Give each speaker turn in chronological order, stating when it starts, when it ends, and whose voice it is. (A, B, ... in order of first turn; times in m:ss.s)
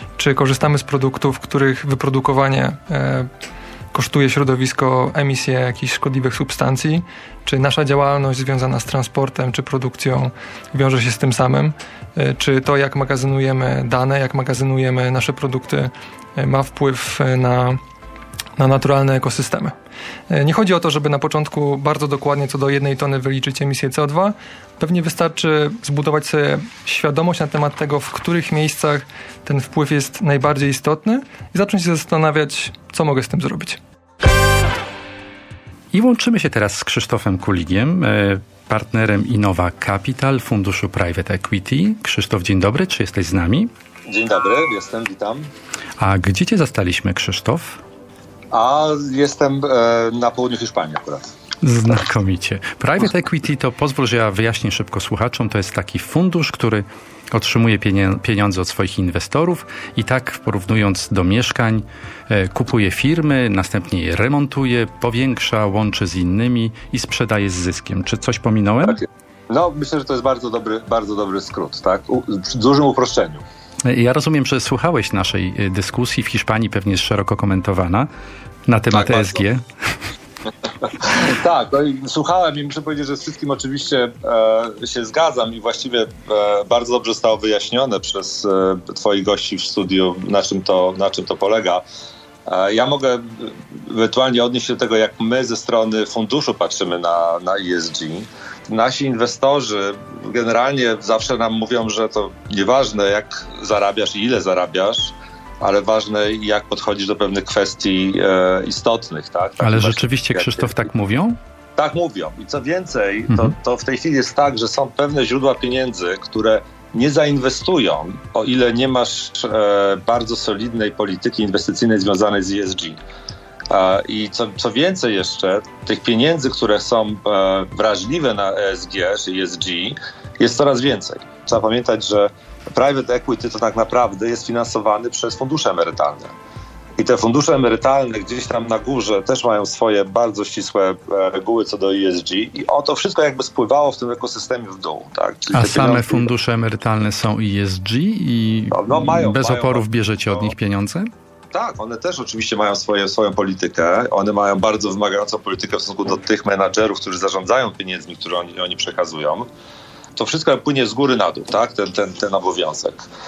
0:00.2-0:03.3 A
0:03.9-0:17.8 A
0:18.6-0:19.7 A
0:20.3-0:33.8 A
0:35.9-0:43.7 B
0:44.1-0:45.5 C
0:46.0-0:47.8 B
0:48.5-0:51.2 C
0:51.6-1:09.0 B
1:09.5-1:13.4 C
1:13.8-1:18.1 B
1:18.7-1:19.6 B
1:18.9-1:19.4 C
1:20.8-1:31.8 C
1:32.5-1:50.8 C
1:49.6-1:51.4 B
1:51.8-2:03.0 C
2:03.7-2:16.3 C
2:17.0-2:26.3 C
2:25.5-2:31.1 B
2:28.7-2:30.5 C
2:31.5-2:39.4 C
2:40.2-2:43.0 C